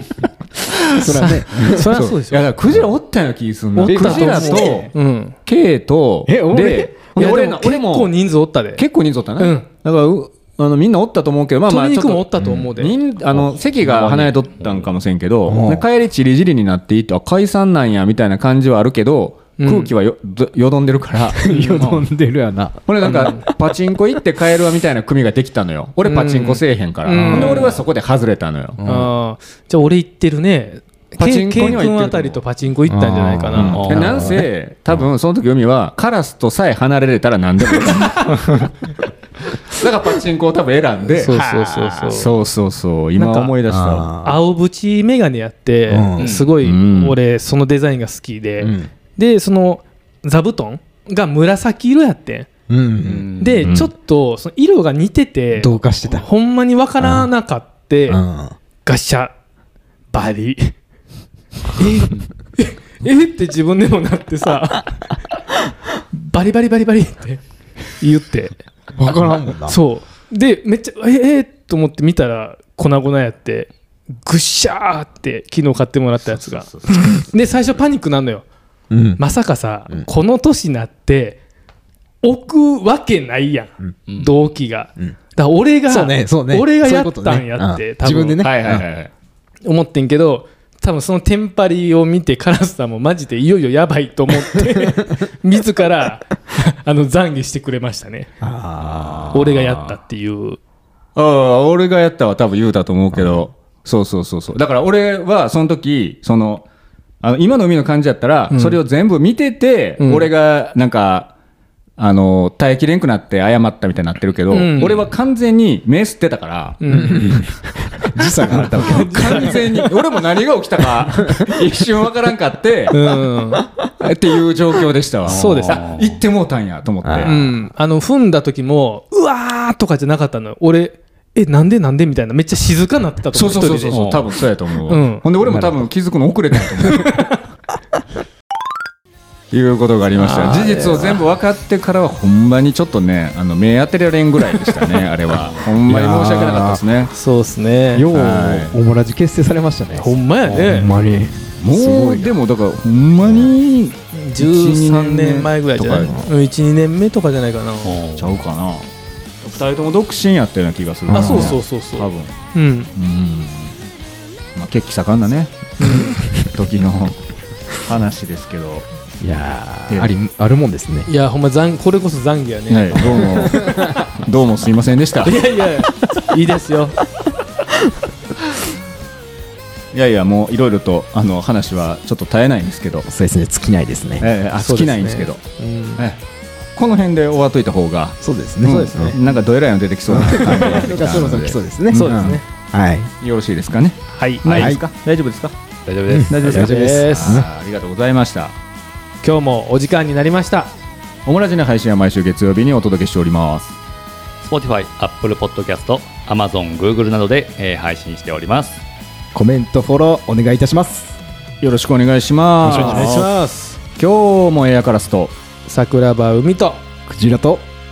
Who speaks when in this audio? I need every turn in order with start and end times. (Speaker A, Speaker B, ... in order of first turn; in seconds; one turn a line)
Speaker A: 0.6-1.1
Speaker B: 0.9-1.9
Speaker C: 1.1-2.5
Speaker A: 1.7-4.9
Speaker C: 3.7-5.3
Speaker B: 3.8-4.9
Speaker A: 5.5-8.1
Speaker B: 6.2-6.9
Speaker C: 7.2-8.8
Speaker A: 8.8-21.5
Speaker C: 9.4-9.7
Speaker C: 11.7-12.9
Speaker B: 12.4-12.7
Speaker D: 13.3-15.0
Speaker B: 15.4-15.8
Speaker C: 19.6-19.9
Speaker B: 21.3-23.7
Speaker C: 21.5-21.9
Speaker D: 21.8-22.0
Speaker A: 22.9-28.8
Speaker C: 23.0-23.4
Speaker C: 26.0-27.8
Speaker B: 27.2-27.7
Speaker D: 27.3-27.6
Speaker B: 28.8-29.1
Speaker C: 28.8-34.0
Speaker A: 31.2-32.4
Speaker B: 32.9-34.5
Speaker A: 33.5-38.7
Speaker D: 33.6-34.4
Speaker A: 39.5-41.4
Speaker C: 41.2-42.3
Speaker B: 41.2-42.1
Speaker A: 42.1-44.1
Speaker C: 43.2-43.5
Speaker B: 43.7-44.4
Speaker C: 44.2-52.5
Speaker B: 45.9-46.3
Speaker D: 46.2-46.5
Speaker A: 46.6-47.1
Speaker B: 48.6-48.9
Speaker B: 52.7-53.3
Speaker D: 53.0-53.7
Speaker C: 53.4-58.2
Speaker A: 53.6-53.9
Speaker B: 55.5-56.2
Speaker B: 57.0-57.3
Speaker B: 58.1-58.5
Speaker C: 58.8-59.3
Speaker C: 60.1-60.7
Speaker C: 61.7-65.1
Speaker C: 66.1-67.4
Speaker C: 67.9-68.5
Speaker B: 69.0-69.8
Speaker C: 69.7-73.7
Speaker C: 74.2-78.4
Speaker B: 78.9-79.2
Speaker C: 79.2-81.4
Speaker C: 82.2-88.5
Speaker B: 85.8-88.8
Speaker A: 88.4-89.1
Speaker C: 89.6-98.3
Speaker B: 94.5-95.3
Speaker B: 98.4-99.5
Speaker D: 99.0-99.8
Speaker C: 99.3-100.6
Speaker A: 101.2-106.7
Speaker A: 107.2-111.3
Speaker C: 108.5-108.8
Speaker C: 110.0-110.3
Speaker A: 112.0-117.4
Speaker C: 114.5-115.1
Speaker C: 116.8-117.4
Speaker B: 116.9-119.8
Speaker A: 118.2-123.0
Speaker C: 118.7-119.9
Speaker B: 121.1-121.7
Speaker C: 122.9-123.7
Speaker A: 124.0-127.4
Speaker D: 125.2-126.2
Speaker C: 125.3-125.8
Speaker B: 127.0-127.4
Speaker C: 127.2-134.1
Speaker A: 133.3-137.3
Speaker D: 133.9-134.3
Speaker C: 134.9-135.6
Speaker C: 136.8-137.4
Speaker A: 139.5-147.1
Speaker C: 140.1-141.2
Speaker D: 145.3-145.6
Speaker B: 145.8-146.8
Speaker C: 147.1-148.1
Speaker B: 147.9-152.3
Speaker A: 148.1-148.8
Speaker C: 149.9-150.9
Speaker D: 150.4-150.8
Speaker A: 151.6-156.2
Speaker B: 153.2-153.5
Speaker C: 154.1-158.0
Speaker B: 156.0-156.3
Speaker D: 157.8-158.4
Speaker A: 158.2-158.9
Speaker A: 159.4-162.3
Speaker B: 161.1-161.6
Speaker C: 161.1-162.9
Speaker A: 162.9-163.7
Speaker A: 164.5-167.2
Speaker C: 165.8-166.2
Speaker B: 165.8-166.2
Speaker A: 167.7-168.9
Speaker B: 169.2-171.1
Speaker C: 171.1-173.5
Speaker A: 172.7-175.4
Speaker B: 173.0-174.0
Speaker C: 175.2-177.0
Speaker A: 179.9-183.1
Speaker B: 183.1-184.3
Speaker A: 184.2-185.4
Speaker C: 184.6-186.1
Speaker A: 186.7-192.3
Speaker B: 188.2-189.2
Speaker C: 188.6-189.3
Speaker B: 190.1-193.1
Speaker C: 190.3-191.1
Speaker C: 191.9-192.4
Speaker A: 193.2-195.5
Speaker C: 194.1-194.7
Speaker B: 194.5-194.8
Speaker D: 195.8-196.7
Speaker B: 196.1-197.5
Speaker A: 196.3-198.6
Speaker C: 196.4-197.4
Speaker C: 199.2-200.7
Speaker A: 201.2-203.8
Speaker D: 204.4-208.8
Speaker B: 209.3-211.2
Speaker A: 211.6-213.1
Speaker D: 212.6-213.3
Speaker C: 212.6-213.8
Speaker A: 213.9-215.3
Speaker C: 215.7-216.8
Speaker B: 217.1-217.7